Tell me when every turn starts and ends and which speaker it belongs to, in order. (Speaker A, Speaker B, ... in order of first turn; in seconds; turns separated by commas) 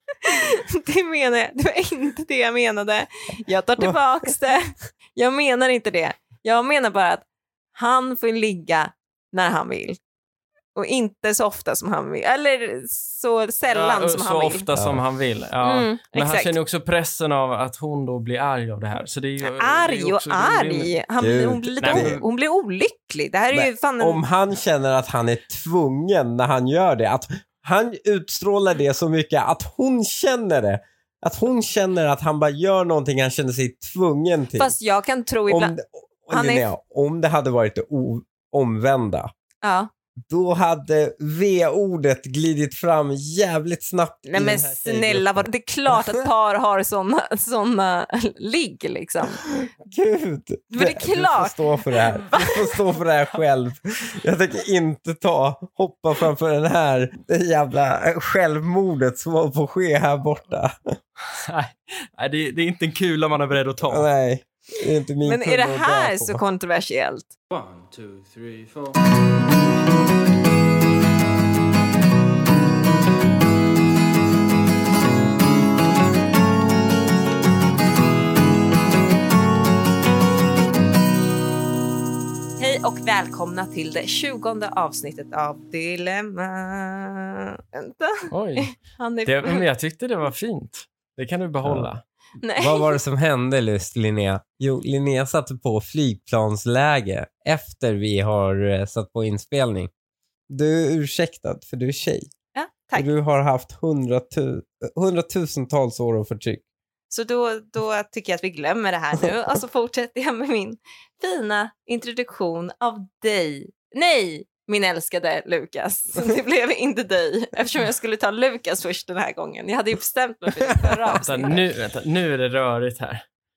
Speaker A: 0.2-7.2, Speaker A: 7.8-10.0, Speaker A: 10.8-14.7, Speaker B: 13.7-21.0, Speaker C: 14.7-15.0, Speaker A: 15.6-16.5, Speaker A: 19.4-24.2, Speaker C: 21.2-22.2, Speaker B: 21.8-22.2, Speaker C: 23.5-34.7, Speaker A: 34.6-35.7, Speaker C: 35.5-39.3, Speaker A: 36.3-36.7, Speaker A: 39.6-39.9, Speaker C: 40.3-46.0, Speaker A: 44.3-49.4, Speaker C: 49.8-60.8, Speaker A: 50.7-52.7, Speaker B: 61.3-64.1, Speaker C: 63.8-66.4, Speaker A: 65.2-67.3, Speaker B: 67.5-68.9, Speaker A: 82.6-89.6, Speaker B: 88.3-92.0, Speaker C: 91.6-91.9, Speaker A: 92.4-93.0, Speaker C: 92.6-99.9, Speaker C: 100.5-102.3, Speaker A: 102.5-103.1, Speaker C: 103.0-106.6, Speaker A: 107.1-121.6, Speaker B: 121.2-123.2